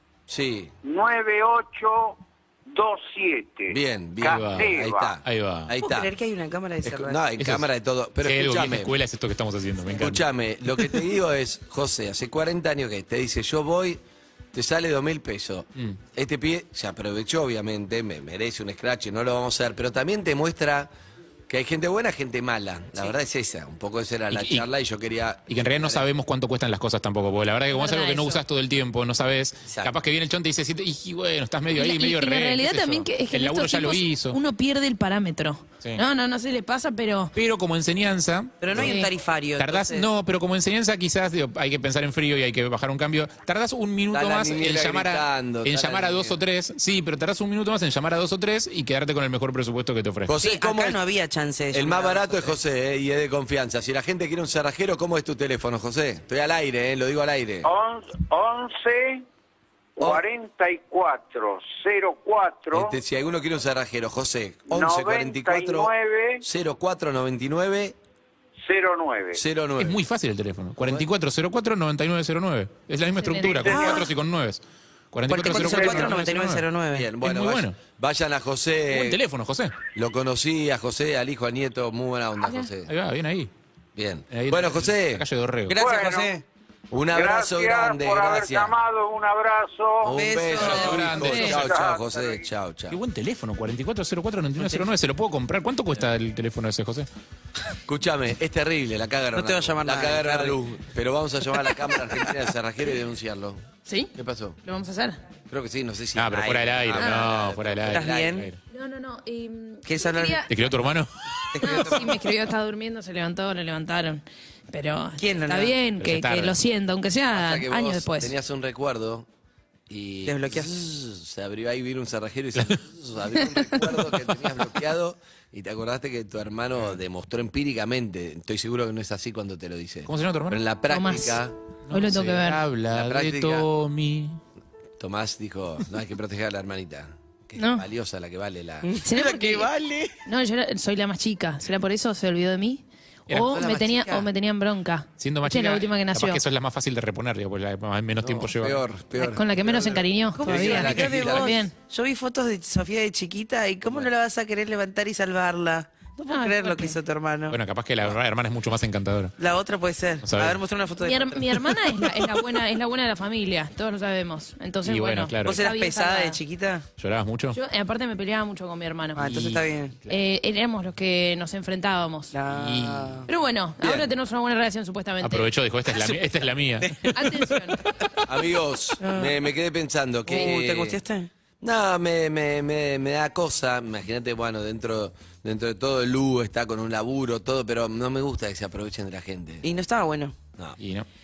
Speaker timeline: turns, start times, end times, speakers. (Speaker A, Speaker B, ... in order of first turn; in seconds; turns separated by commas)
Speaker A: 0.3-0.7, Speaker B: 0.8-5.2, Speaker A: 3.7-6.1, Speaker C: 4.3-4.7, Speaker C: 5.2-5.7, Speaker D: 5.8-7.2, Speaker A: 6.8-8.9, Speaker C: 7.4-7.7, Speaker C: 8.2-10.2, Speaker A: 9.9-14.0, Speaker A: 14.5-20.9, Speaker A: 21.5-26.1, Speaker C: 24.3-24.6, Speaker C: 25.5-34.4, Speaker E: 27.7-28.4, Speaker A: 29.7-29.9, Speaker E: 31.8-37.3, Speaker C: 37.3-38.9, Speaker D: 38.6-40.1, Speaker E: 38.7-39.1, Speaker C: 39.5-50.3, Speaker A: 44.1-46.4, Speaker A: 50.2-51.0, Speaker D: 50.4-52.5, Speaker A: 51.7-57.7, Speaker B: 57.6-59.2, Speaker B: 60.0-63.0, Speaker A: 62.7-65.9, Speaker B: 64.7-66.4, Speaker A: 66.4-68.0, Speaker B: 68.6-69.4, Speaker A: 69.3-70.0, Speaker C: 69.8-76.6, Speaker A: 70.8-71.1, Speaker E: 73.2-74.0, Speaker B: 73.7-74.0, Speaker D: 75.3-77.1, Speaker B: 75.6-76.1, Speaker A: 76.9-79.2, Speaker C: 77.2-77.8, Speaker C: 78.9-79.8, Speaker A: 79.9-82.9, Speaker E: 82.4-82.7, Speaker C: 82.9-83.5, Speaker A: 84.0-85.2, Speaker C: 84.3-85.8, Speaker D: 85.7-86.4, Speaker B: 85.7-86.4, Speaker A: 86.9-88.7, Speaker B: 87.1-92.5, Speaker A: 90.0-93.0, Speaker D: 90.1-91.2, Speaker C: 90.5-91.7, Speaker E: 91.2-91.5, Speaker C: 92.9-97.1, Speaker D: 94.6-94.8, Speaker A: 97.9-103.6, Speaker D: 99.3-100.5, Speaker E: 103.8-104.1, Speaker A: 104.1-104.6, Speaker E: 104.6-105.2, Speaker A: 105.5-108.5, Speaker C: 106.1-108.6, Speaker D: 107.9-108.5, Speaker E: 108.7-110.5, Speaker D: 109.8-110.4, Speaker C: 110.5-111.1, Speaker D: 111.5-112.2, Speaker E: 111.6-118.3, Speaker D: 115.2-115.8, Speaker C: 116.0-116.5, Speaker A: 117.3-119.3, Speaker A: 119.9-131.5, Speaker D: 120.2-120.7, Speaker C: 130.1-130.6, Speaker E: 130.9-131.4, Speaker C: 131.9-134.4, Speaker E: 131.9-132.6, Speaker A: 132.9-133.7, Speaker A: 135.0-138.9, Speaker E: 137.6-137.8, Speaker D: 138.8-140.1, Speaker E: 139.0-139.7, Speaker E: 140.2-146.4, Speaker C: 143.3-143.6, Speaker D: 143.5-144.2, Speaker C: 145.2-148.8, Speaker A: 148.2-151.6, Speaker E: 149.2-151.7, Speaker D: 150.4-157.6, Speaker E: 156.3-156.9, Speaker C: 157.5-159.3, Speaker D: 159.4-161.6, Speaker C: 160.2-160.6, Speaker E: 161.0-166.4, Speaker C: 164.8-165.6, Speaker D: 165.4-166.8, Speaker C: 167.0-167.6, Speaker E: 167.5-169.2, Speaker D: 169.2-169.9, Speaker C: 169.2-169.7, Speaker E: 170.1-172.3, Speaker D: 172.3-173.3, Speaker C: 172.5-173.2, Speaker E: 173.3-175.5, Speaker C: 175.2-177.5, Speaker E: 177.1-177.8, Speaker A: 178.2-181.0, Speaker D: 179.0-179.4, Speaker D: 180.3-181.3, Speaker A: 181.6-189.7, Speaker D: 189.6-190.3, Speaker C: 190.8-191.1